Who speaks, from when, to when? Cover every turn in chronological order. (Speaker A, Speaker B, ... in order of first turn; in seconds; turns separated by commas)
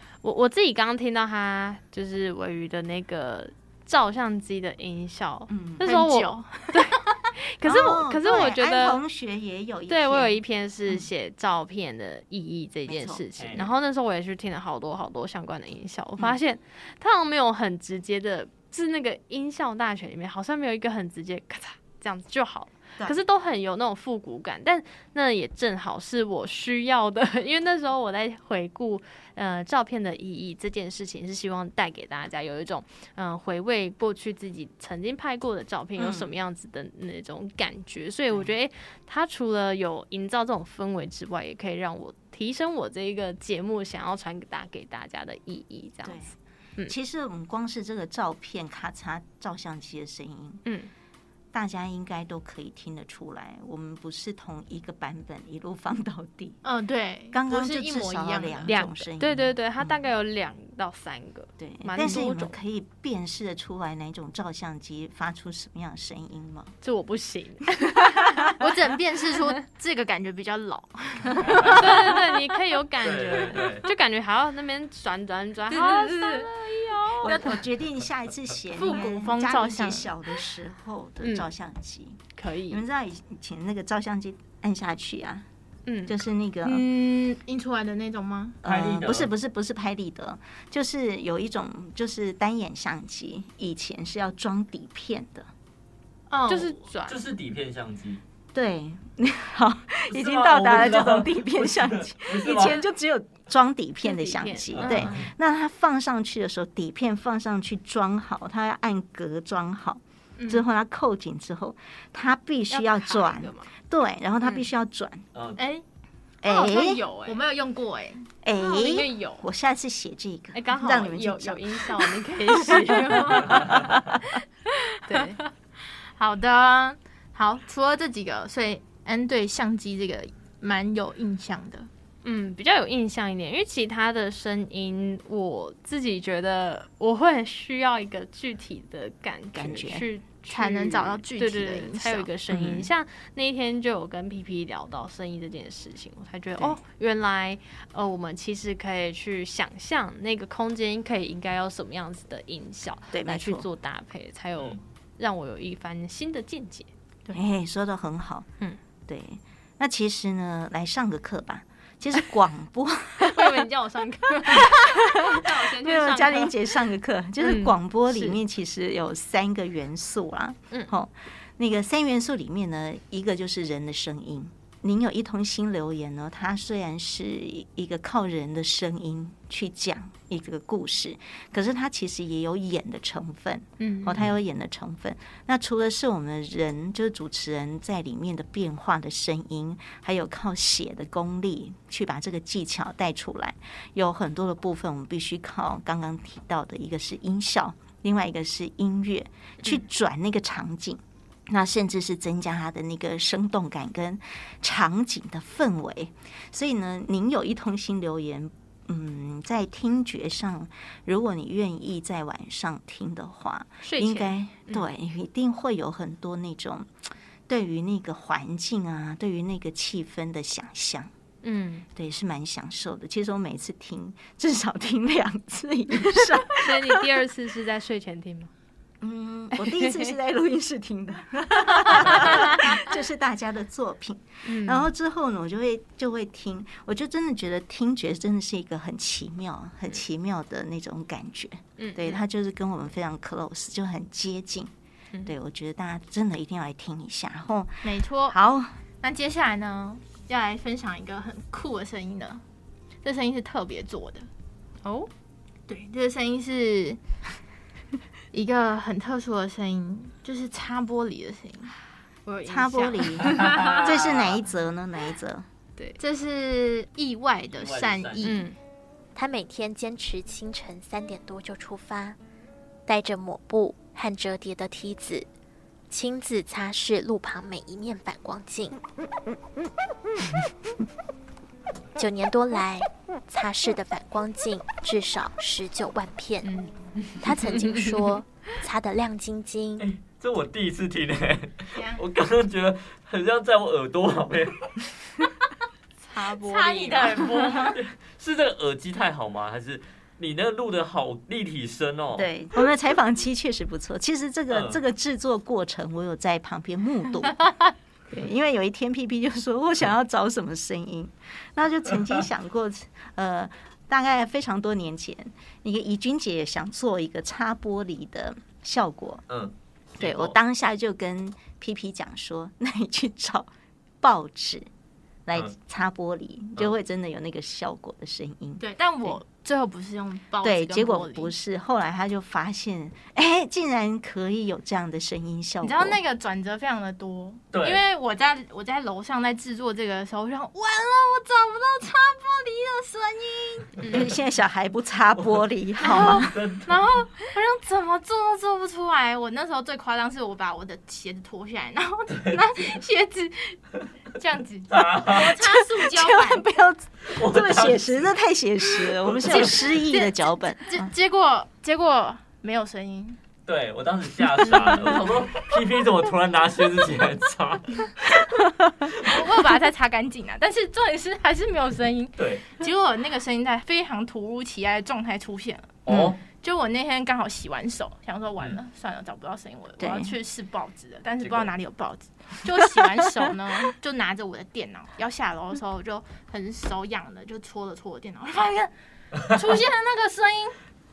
Speaker A: 0.2-9.0, Speaker B: 5.5-5.8, Speaker C: 5.8-6.7, Speaker B: 7.6-11.1, Speaker A: 9.9-46.9, Speaker B: 12.9-13.2, Speaker D: 13.3-13.7, Speaker B: 36.0-36.3, Speaker B: 46.0-46.3, Speaker B: 46.8-50.6, Speaker A: 50.6-50.9, Speaker B: 51.5-56.6, Speaker C: 56.6-58.8, Speaker B: 57.3-60.1, Speaker A: 58.6-62.5, Speaker B: 61.6-66.7, Speaker A: 66.8-68.6, Speaker C: 68.5-72.1, Speaker D: 71.4-72.0, Speaker A: 71.6-77.6, Speaker D: 73.0-73.8, Speaker C: 75.7-76.5, Speaker B: 77.2-85.4, Speaker C: 78.8-80.1, Speaker A: 81.2-81.5, Speaker A: 82.3-82.8, Speaker A: 85.8-86.2, Speaker B: 86.0-86.8, Speaker C: 86.6-88.6, Speaker B: 88.6-95.5, Speaker D: 88.6-89.3, Speaker C: 96.3-96.8, Speaker A: 96.4-97.2, Speaker D: 97.0-98.2, Speaker B: 98.5-115.2, Speaker D: 100.1-102.8, Speaker A: 102.5-102.8, Speaker A: 104.0-105.3, Speaker D: 104.7-105.3, Speaker C: 104.8-105.1, Speaker A: 112.7-113.7, Speaker D: 115.3-115.6, Speaker C: 115.6-115.8, Speaker B: 116.4-117.0, Speaker C: 116.4-118.3, Speaker A: 117.0-117.3, Speaker B: 118.4-123.1, Speaker A: 118.6-119.4, Speaker A: 120.5-124.2, Speaker C: 122.6-123.8, Speaker A: 125.0-125.4, Speaker C: 125.1-125.3, Speaker C: 126.2-131.9, Speaker A: 132.2-156.9, Speaker B: 139.5-140.1, Speaker C: 140.5-142.3, Speaker B: 142.5-142.9, Speaker B: 153.1-153.7, Speaker B: 157.3-158.5, Speaker B: 159.1-163.7, Speaker A: 163.2-166.7, Speaker B: 165.7-216.9, Speaker A: 167.4-168.4, Speaker C: 183.8-184.2, Speaker A: 213.8-214.9, Speaker B: 217.5-221.1, Speaker A: 221.4-221.8, Speaker B: 221.9-227.0, Speaker A: 226.6-228.5, Speaker B: 229.0-244.7, Speaker A: 231.7-232.7, Speaker A: 234.4-234.9, Speaker A: 241.8-242.2, Speaker B: 245.2-248.7, Speaker C: 247.8-248.4, Speaker C: 249.0-252.4, Speaker C: 253.0-254.3, Speaker A: 254.8-255.1, Speaker C: 255.7-257.0, Speaker C: 258.3-261.7, Speaker A: 262.3-263.9, Speaker B: 262.4-265.4, Speaker D: 263.2-264.3, Speaker C: 266.0-268.4, Speaker D: 267.6-268.4, Speaker A: 268.2-268.5, Speaker E: 269.1-272.2, Speaker E: 272.9-275.3, Speaker E: 275.9-278.8, Speaker E: 281.9-286.4, Speaker A: 286.4-288.2, Speaker E: 287.2-289.8, Speaker D: 289.8-294.8, Speaker C: 291.7-292.0, Speaker A: 296.0-297.6, Speaker C: 296.1-297.7, Speaker D: 297.1-302.3, Speaker B: 302.1-307.4, Speaker D: 304.5-304.8, Speaker B: 308.1-319.2, Speaker D: 319.3-320.4, Speaker B: 320.0-323.5, Speaker B: 324.0-324.7, Speaker B: 325.2-329.2, Speaker C: 328.6-331.3, Speaker B: 330.4-336.0, Speaker C: 335.6-343.9, Speaker D: 337.5-337.8, Speaker B: 343.9-346.3, Speaker D: 345.1-345.4, Speaker C: 345.8-353.6, Speaker D: 346.0-346.8, Speaker D: 352.1-352.4, Speaker C: 354.1-356.4, Speaker D: 354.7-355.4, Speaker B: 355.8-360.9, Speaker D: 357.1-358.1, Speaker D: 359.0-359.7, Speaker C: 359.2-363.2, Speaker D: 363.4-368.1, Speaker D: 368.9-369.1, Speaker C: 369.0-388.7, Speaker D: 372.2-372.6, Speaker D: 375.8-376.2, Speaker B: 375.9-376.1, Speaker B: 379.8-380.2, Speaker D: 381.2-381.5, Speaker C: 389.2-390.5